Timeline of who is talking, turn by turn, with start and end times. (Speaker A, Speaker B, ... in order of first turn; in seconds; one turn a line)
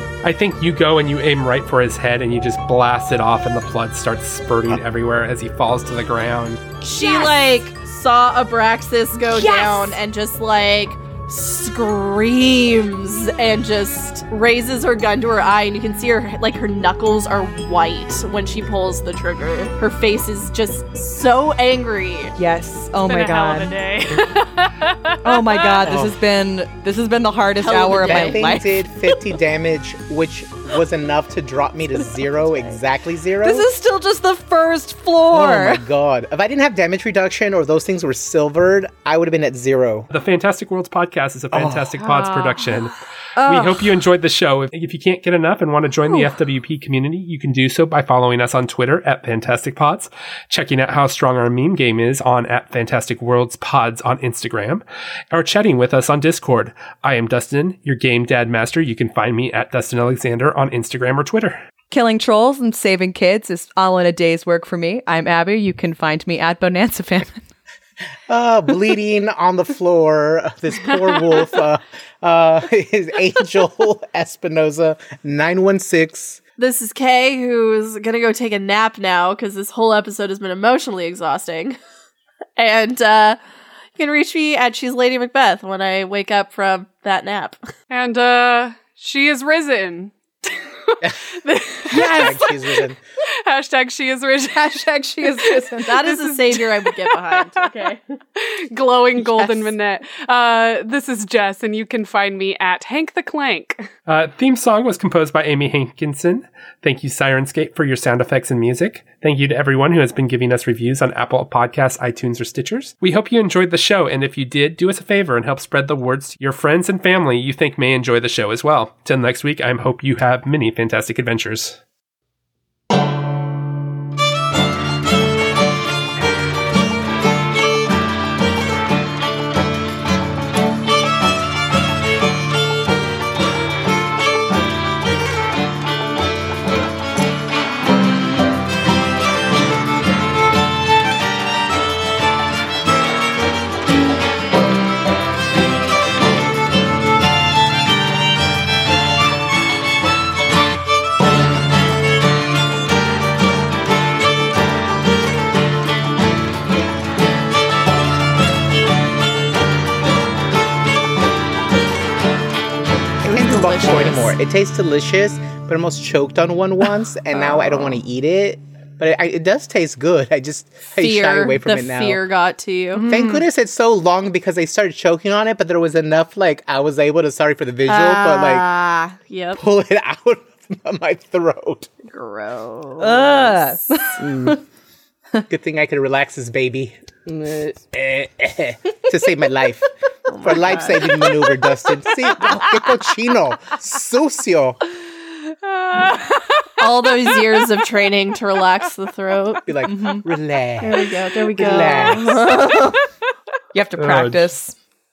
Speaker A: 0.2-6.6
Speaker B: 6.8-22.3
Speaker C: 7.0-7.3
Speaker C: 9.3-10.0
Speaker C: 22.4-23.8
Speaker D: 23.1-25.8
Speaker C: 25.2-28.7
Speaker E: 25.8-26.1
Speaker B: 27.6-28.6
Speaker E: 27.9-33.7
Speaker C: 33.4-35.8
Speaker E: 35.3-40.1
Speaker A: 40.1-61.6
Speaker E: 41.5-42.0
Speaker C: 43.4-43.8
Speaker C: 61.9-67.5
Speaker E: 68.3-76.4
Speaker B: 76.6-81.8
Speaker B: 82.6-83.4
Speaker B: 84.0-87.7
Speaker D: 87.9-92.7
Speaker E: 91.9-93.0
Speaker C: 91.9-92.4
Speaker D: 93.3-103.9
Speaker C: 94.5-96.1
Speaker B: 95.8-98.0
Speaker B: 99.2-99.7
Speaker A: 104.1-121.8
Speaker E: 163.2-172.2
Speaker B: 163.2-164.3
Speaker B: 171.0-173.1
Speaker E: 173.1-178.7
Speaker B: 177.9-179.6
Speaker E: 179.6-181.9
Speaker B: 182.1-184.1
Speaker C: 183.0-184.6
Speaker E: 184.2-184.6
Speaker E: 185.5-194.8
Speaker B: 190.3-191.6
Speaker D: 195.8-196.8
Speaker B: 196.8-199.7
Speaker E: 199.6-202.6
Speaker C: 199.9-200.2
Speaker B: 200.8-203.0
Speaker C: 203.7-204.8
Speaker A: 204.0-204.5